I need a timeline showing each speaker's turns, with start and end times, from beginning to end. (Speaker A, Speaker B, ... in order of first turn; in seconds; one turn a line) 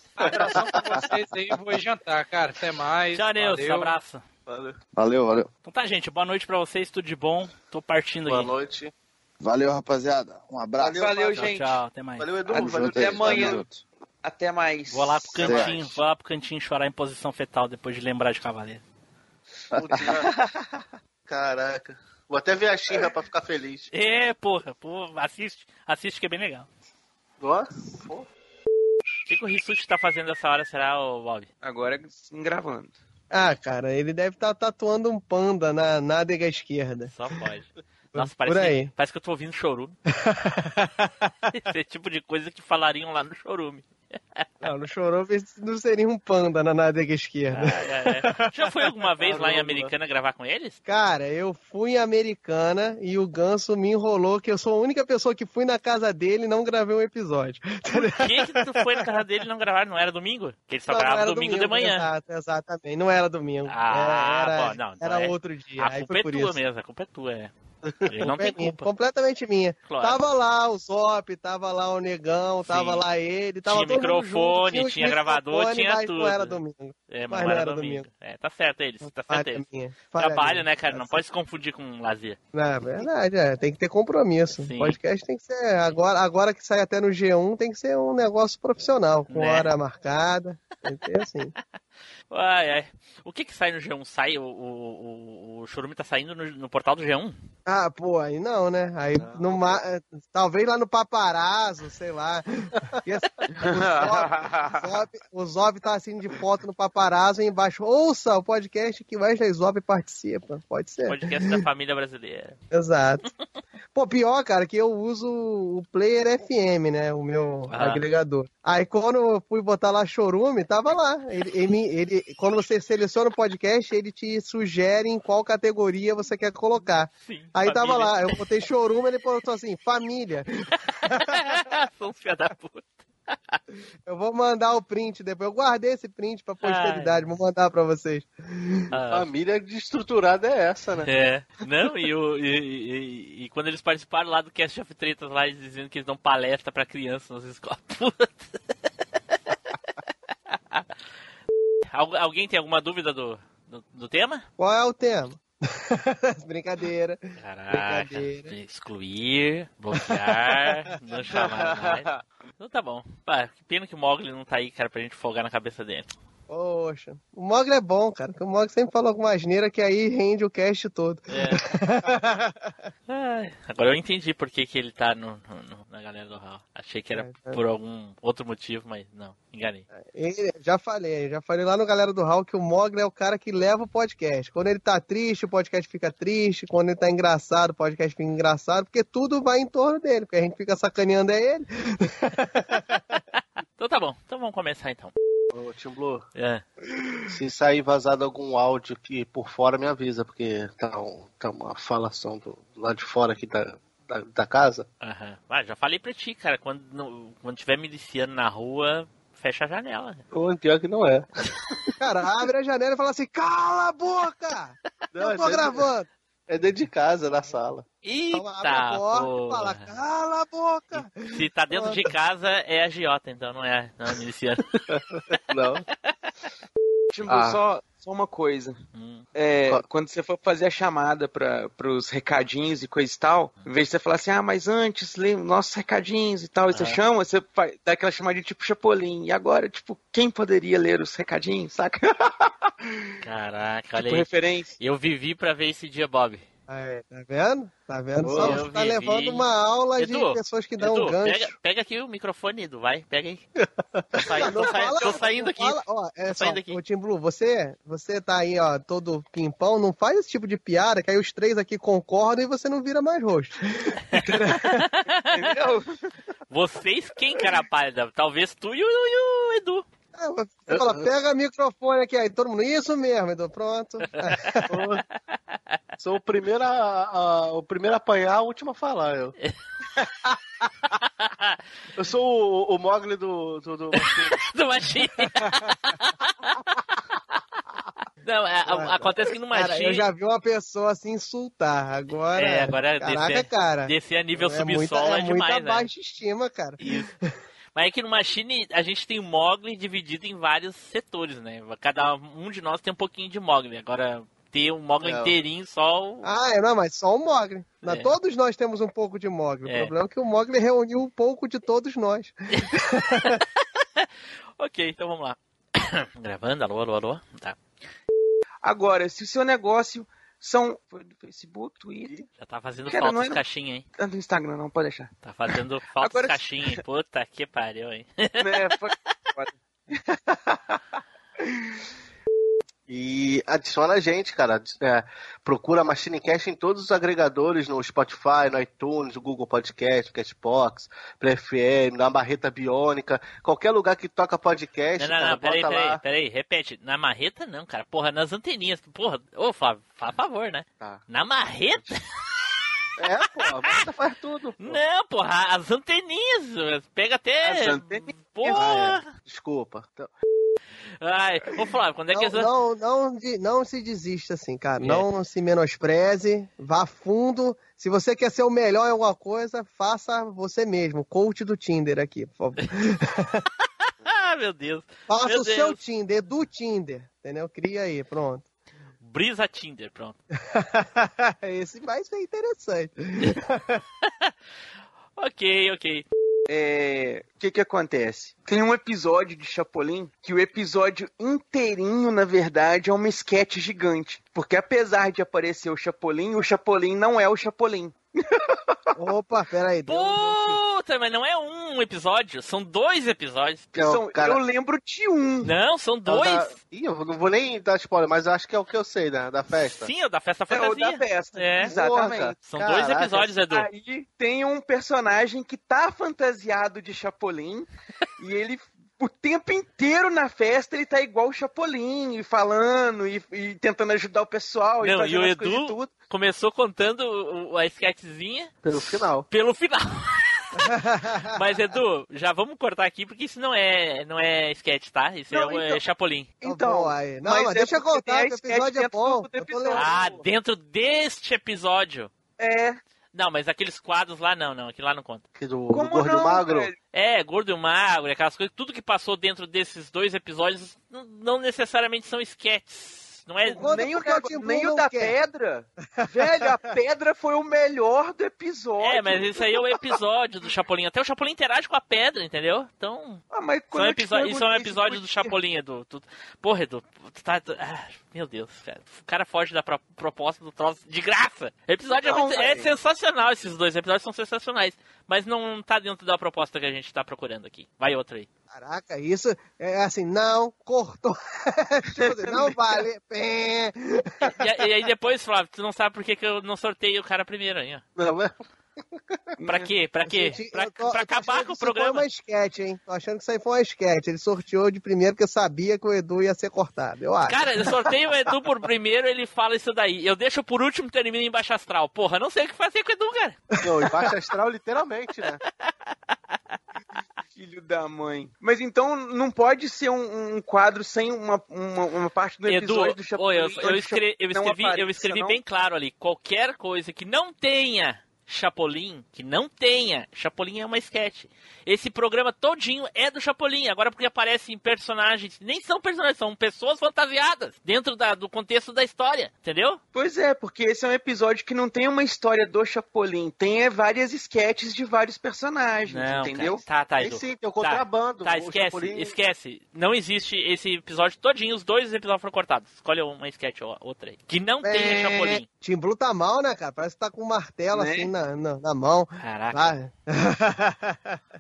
Speaker A: 0.2-3.9
Speaker B: 3.1-4.2
Speaker C: 5.0-5.5
Speaker B: 5.7-8.5
Speaker D: 8.3-8.9
Speaker C: 9.4-11.2
Speaker D: 10.8-11.4
Speaker E: 11.0-11.8
Speaker B: 11.4-12.3
Speaker D: 12.2-13.6
Speaker E: 12.5-13.7
Speaker C: 12.5-13.8
Speaker E: 14.2-15.7
Speaker B: 14.9-18.8
Speaker C: 15.4-15.8
Speaker C: 19.7-20.2
Speaker D: 19.8-20.2
Speaker D: 21.3-23.9
Speaker F: 22.5-23.0
Speaker B: 23.9-26.7
Speaker B: 29.3-31.5
Speaker E: 31.6-33.0
Speaker G: 33.3-37.1
Speaker B: 37.1-40.0
Speaker G: 38.1-38.9
Speaker G: 40.2-41.1
Speaker B: 41.5-44.5
Speaker G: 44.6-48.5
Speaker B: 47.5-50.8
Speaker G: 50.9-59.1
Speaker B: 57.9-62.1
Speaker G: 60.9-66.6
Speaker B: 63.7-67.5
Speaker B: 68.1-68.9
Speaker G: 68.1-78.1
Speaker B: 69.8-70.2
Speaker B: 72.7-73.0
Speaker B: 73.7-76.6
Speaker B: 77.1-82.4
Speaker G: 79.0-81.2
Speaker G: 82.5-91.5
Speaker B: 84.6-85.0
Speaker B: 89.3-89.7
Speaker B: 92.3-97.4
Speaker G: 97.7-111.6
Speaker E: 103.6-104.9
Speaker B: 111.1-112.5
Speaker G: 112.7-113.2
Speaker G: 113.9-131.6
Speaker B: 117.7-118.0
Speaker B: 127.2-128.4
Speaker B: 131.1-133.6
Speaker G: 134.1-138.9
Speaker B: 136.6-137.2
Speaker B: 138.9-139.3
Speaker F: 139.2-141.1
Speaker B: 141.1-148.5
Speaker B: 151.9-154.5
Speaker G: 154.6-157.2
Speaker B: 157.4-166.1
Speaker G: 157.7-158.5
Speaker G: 160.0-160.8
Speaker E: 161.5-162.2
Speaker G: 166.5-172.7
Speaker B: 171.3-171.7
Speaker B: 173.1-179.8
Speaker G: 177.1-177.6
Speaker G: 180.0-193.2
Speaker B: 193.8-195.1
Speaker F: 195.5-196.2
Speaker B: 196.4-196.6
Speaker F: 197.3-204.9
Speaker B: 205.0-210.2
Speaker F: 210.3-211.3
Speaker G: 212.0-216.1
Speaker F: 215.2-215.8
Speaker F: 216.5-217.8
Speaker B: 218.1-219.9
Speaker G: 218.3-222.1
Speaker B: 220.9-224.6
Speaker F: 225.5-225.8
Speaker E: 227.1-228.8
Speaker F: 227.3-227.6
Speaker B: 228.9-229.3
Speaker E: 229.3-242.3
Speaker B: 236.7-237.0
Speaker B: 243.2-244.3
Speaker E: 243.9-244.8
Speaker B: 244.8-246.4
Speaker G: 246.7-251.5
Speaker B: 248.3-253.4
Speaker B: 254.1-256.8
Speaker G: 254.2-264.9
Speaker B: 264.1-265.5
Speaker E: 265.3-265.9
Speaker B: 266.5-269.9
Speaker G: 270.2-274.8
Speaker F: 274.7-275.0
Speaker F: 276.0-279.3
Speaker B: 281.2-281.6
Speaker F: 282.0-284.2
Speaker B: 284.4-286.1
Speaker G: 285.2-285.9
Speaker B: 288.2-290.1
Speaker G: 288.6-297.1
Speaker B: 292.3-295.9
Speaker B: 296.8-297.1
Speaker B: 297.8-306.3
Speaker G: 306.2-313.4
Speaker B: 307.8-308.1
Speaker B: 309.7-309.9
Speaker B: 314.6-317.6
Speaker E: 318.6-322.2
Speaker B: 322.4-323.8
Speaker E: 322.9-323.4
Speaker E: 324.0-325.1
Speaker B: 325.2-328.5
Speaker E: 326.0-326.8
Speaker E: 328.4-329.5
Speaker F: 332.9-346.0
Speaker B: 345.0-352.0
Speaker F: 353.0-354.8
Speaker B: 354.6-359.1
Speaker F: 358.5-360.1
Speaker B: 361.0-362.5
Speaker G: 362.1-373.4
Speaker B: 364.8-365.1
Speaker B: 374.0-375.8
Speaker G: 375.1-378.4
Speaker B: 379.0-380.2
Speaker G: 380.6-383.8
Speaker B: 385.2-386.1
Speaker E: 386.5-397.9
Speaker G: 398.9-400.6
Speaker B: 399.9-403.7
Speaker F: 403.8-404.4
Speaker E: 403.8-405.5
Speaker B: 405.4-406.5
Speaker F: 406.1-409.9
Speaker B: 409.6-411.7
Speaker E: 410.5-412.4
Speaker F: 411.7-413.1
Speaker B: 412.4-413.7
Speaker E: 413.5-417.7
Speaker E: 418.2-425.9
Speaker B: 424.8-428.7
Speaker F: 428.6-429.3
Speaker B: 429.3-430.7
Speaker G: 430.6-431.4
Speaker B: 431.3-436.3
Speaker E: 435.3-435.8
Speaker E: 436.4-440.2
Speaker G: 436.4-439.9
Speaker B: 439.7-442.1
Speaker E: 442.4-442.8
Speaker B: 443.1-445.2
Speaker F: 445.4-446.7
Speaker E: 445.7-446.8
Speaker B: 446.9-453.7
Speaker G: 453.5-455.2
Speaker E: 453.6-459.5
Speaker G: 456.0-456.6
Speaker B: 458.8-478.3
Speaker E: 463.3-465.3
Speaker E: 472.0-472.7
Speaker G: 478.5-484.5
Speaker E: 482.0-482.4
Speaker B: 484.3-487.8
Speaker F: 488.0-488.3
Speaker E: 489.4-489.7
Speaker B: 489.4-492.0
Speaker G: 490.1-497.7
Speaker B: 497.2-503.4
Speaker G: 503.5-504.1
Speaker F: 503.6-505.4
Speaker E: 507.3-515.4
Speaker B: 512.5-529.8
Speaker E: 529.9-536.6
Speaker B: 535.9-545.5
Speaker F: 537.0-539.1
Speaker G: 544.6-551.2
Speaker E: 547.7-548.1
Speaker B: 549.2-549.7